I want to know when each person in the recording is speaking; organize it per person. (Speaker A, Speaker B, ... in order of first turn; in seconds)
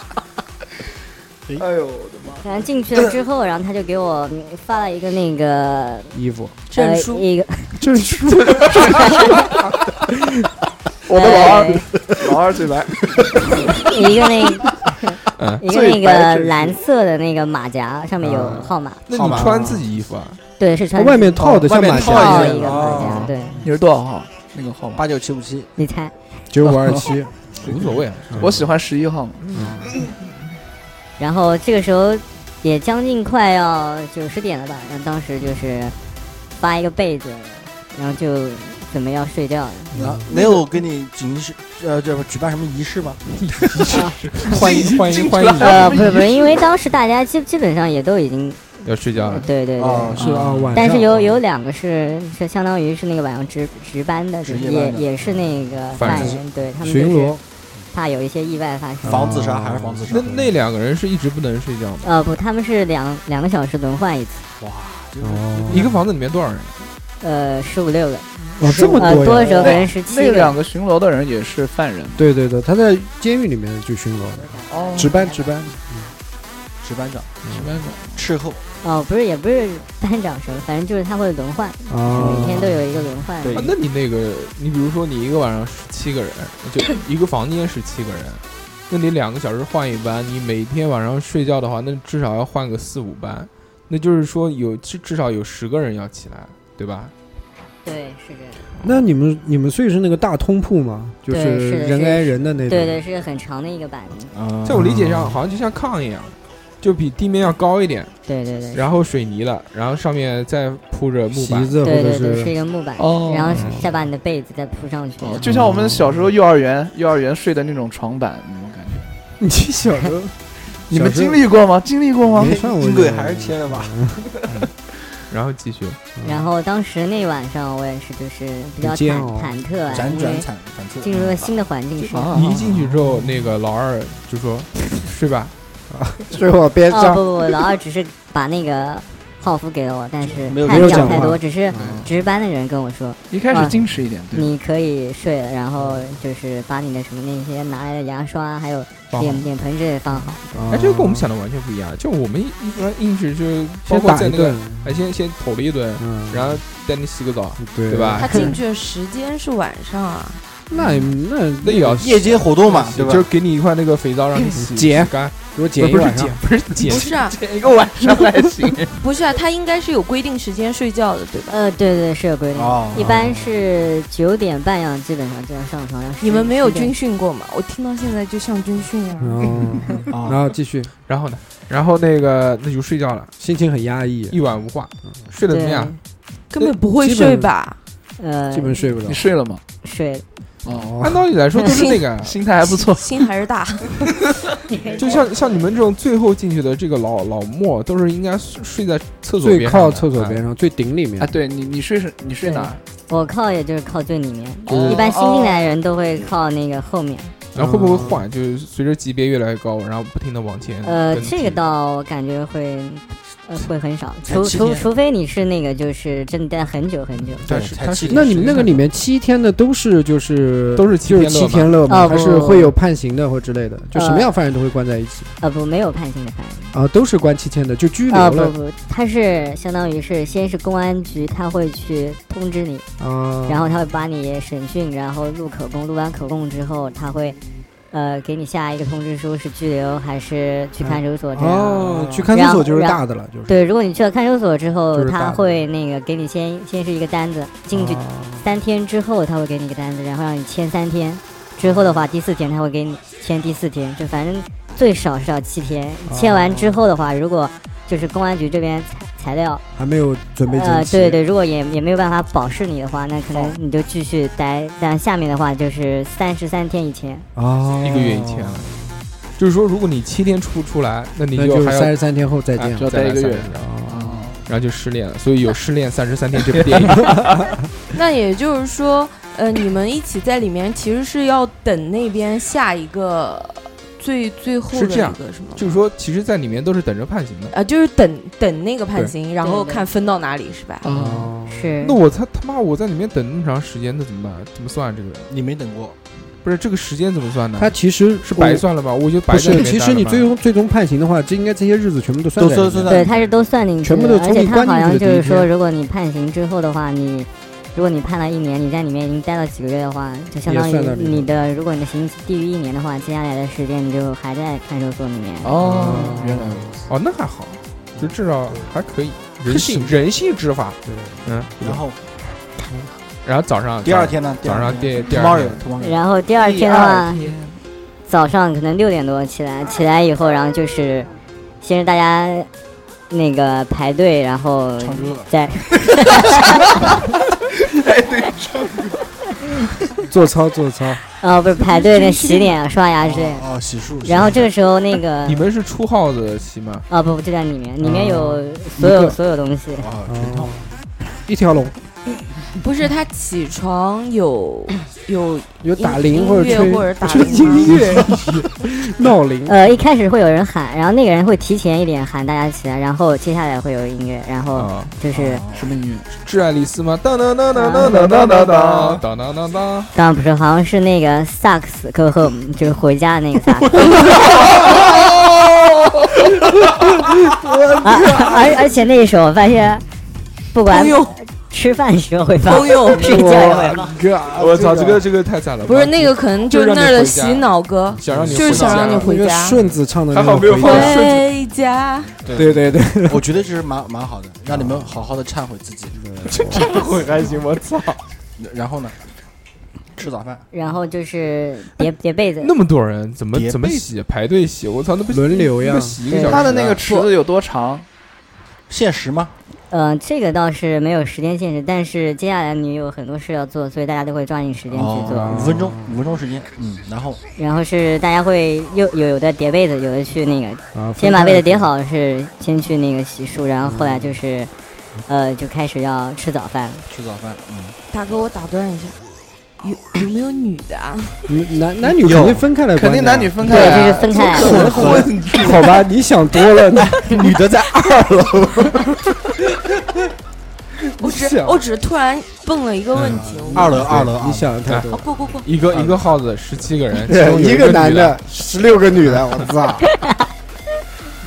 Speaker A: 1.6-2.5, 11.1-13.8, 15.6-16.8, 23.6-25.0, 26.7-27.0, 27.6-29.4, 40.3-40.6, 44.5-46.7, 69.5-72.3, 74.7-75.2, 77.5-78.2, 113.0-113.7, 115.2-119.1, 120.9-122.5, 132.0-132.7, 141.7-142.0, 143.3-144.5, 166.9-169.0, 189.0-189.6, 190.6-191.0, 192.2-193.1, 201.2-202.8, 204.7-205.7, 272.8-273.2, 273.9-274.3, 290.8-291.3, 315.4-316.7, 326.4-327.6, 337.6-339.0, 365.5-366.1, 367.7-369.0, 373.8-376.4, 377.4-378.6, 396.5-397.7, 406.2-407.9, 432.7-435.8
Speaker B: 2.4-6.2, 6.7-8.0, 8.7-9.4, 11.1-11.8, 13.8-19.0, 20.6-23.6, 25.8-26.1, 31.2-36.0, 36.6-40.0, 45.6-50.2, 50.7-57.4, 57.9-59.3, 62.0-64.5, 67.2-70.5, 74.5-75.5, 78.8-83.7, 97.8-98.7, 101.3-104.3, 108.3-108.8, 111.8-115.4, 126.2-130.5, 131.0-132.6, 136.9-143.7, 144.3-150.6, 171.5-176.9, 185.5-186.0, 188.2-188.9, 189.8-190.2, 194.7-195.2, 202.4-207.3, 210.8-217.5, 221.9-222.7, 223.9-224.3, 225.4-226.7, 228.1-232.8, 233.5-237.4, 237.9-259.6, 260.5-267.3, 289.4-289.8, 291.4-292.0, 302.9-315.5, 325.8-327.2, 328.1-331.1, 331.6-332.5, 333.1-336.6, 341.2-343.5, 344.0-345.4, 346.9-349.9, 359.4-365.4, 367.6-367.9, 369.9-374.1, 377.8-379.9, 380.5-383.9, 400.5-402.5, 406.1-406.4, 409.7-415.5, 417.4-424.5, 425.1-426.8, 433.4-434.5, 449.9-450.2
Speaker C: 6.1-6.6, 7.8-9.2, 18.2-18.7, 20.9-23.6, 26.5-27.3, 28.3-28.6, 29.5-29.9, 40.0-40.2, 44.5-44.7, 50.2-51.1, 56.0-57.4, 59.0-60.5, 65.2-65.9, 68.6-69.8, 72.2-76.1, 81.9-82.9, 98.8-103.0, 104.7-105.4, 111.3-112.5, 113.5-113.8, 119.4-120.4, 120.9-121.4, 122.2-124.3, 126.2-126.5, 128.8-129.5, 135.9-137.2, 140.7-142.0, 150.5-151.3, 153.8-155.1, 156.0-156.6, 157.6-158.5, 160.7-162.2, 164.5-166.4, 172.9-173.4, 179.2-180.9, 183.4-184.4, 186.9-187.5, 188.5-189.2, 190.7-191.3, 199.4-201.3, 207.5-208.2, 218.1-225.3, 226.7-228.5, 233.0-233.7, 240.8-243.6, 244.9-245.7, 247.7-248.4, 251.6-252.0, 256.1-256.8, 259.8-261.2, 267.3-268.9, 271.3-272.9, 273.5-274.1, 290.9-291.7, 297.6-298.6, 299.3-303.0, 303.8-305.5, 310.4-311.3, 315.6-316.7, 319.4-320.0, 320.8-321.8, 340.1-341.0, 347.8-349.2, 350.1-350.7, 351.2-351.8, 355.6-359.5, 383.0-385.0, 388.1-391.0, 392.3-393.3, 394.5-394.9, 395.9-396.7, 405.1-406.0, 415.1-416.0, 420.7-421.7, 423.6-424.2, 431.3-437.2, 443.5-445.0, 446.9-449.8
Speaker D: 6.7-7.2, 158.2-160.4, 166.9-167.3, 169.0-171.5, 176.2-179.6, 186.5-187.8, 191.7-192.0, 192.7-194.0, 277.9-285.7, 287.5-290.9, 341.6-342.6, 352.6-358.1, 380.7-381.1, 382.4-383.3, 385.6-389.6, 390.6-392.1, 427.9-429.0, 429.6-431.2, 441.0-443.8, 444.9-445.5
Speaker E: 15.4-15.7, 19.1-20.4, 27.6-28.6, 29.4-29.8, 43.4-46.0, 48.8-49.5, 55.9-56.4, 60.1-62.1, 65.7-66.8, 83.5-97.1, 104.7-108.1, 108.7-111.7, 125.3-126.0, 132.3-135.5, 149.1-149.5, 150.7-158.5, 160.8-161.0, 161.6-167.1, 181.1-183.3, 184.3-186.0, 191.0-192.3, 195.0-200.4, 207.5-211.6, 217.4-218.8, 220.7-221.8, 267.8-268.7, 269.4-271.9, 272.6-273.9, 274.4-277.2, 284.7-287.5, 291.8-295.3, 296.4-300.3, 316.9-321.6, 323.2-325.6, 345.2-346.8, 364.5-364.9, 366.1-369.9, 384.3-389.1, 390.1-391.2, 397.3-398.0, 402.4-406.8, 442.9-443.3, 443.8-444.1, 444.7-448.2, 449.0-449.5
Speaker F: 19.1-19.9, 21.5-23.3, 25.0-25.7, 40.0-43.2, 49.8-50.5, 54.4-55.1, 59.0-60.3, 64.6-65.9, 76.8-77.5, 78.1-78.6, 83.4-83.8, 104.3-105.0, 122.3-123.9, 129.9-131.6, 140.3-141.4, 161.9-163.3, 172.5-173.2, 180.1-180.4, 214.2-214.9, 217.4-218.8, 242.0-242.3, 272.9-274.3, 295.3-296.0, 302.4-303.2, 321.6-322.0, 323.8-326.0, 334.8-335.3, 343.0-344.5, 349.8-350.6, 365.1-365.6, 388.3-389.0, 392.2-396.0, 398.4-399.0, 399.9-400.4, 403.3-403.9, 408.7-409.3, 414.7-417.2, 426.9-427.8, 432.0-432.5, 434.4-435.5, 436.9-438.9, 443.1-444.5, 445.7-446.0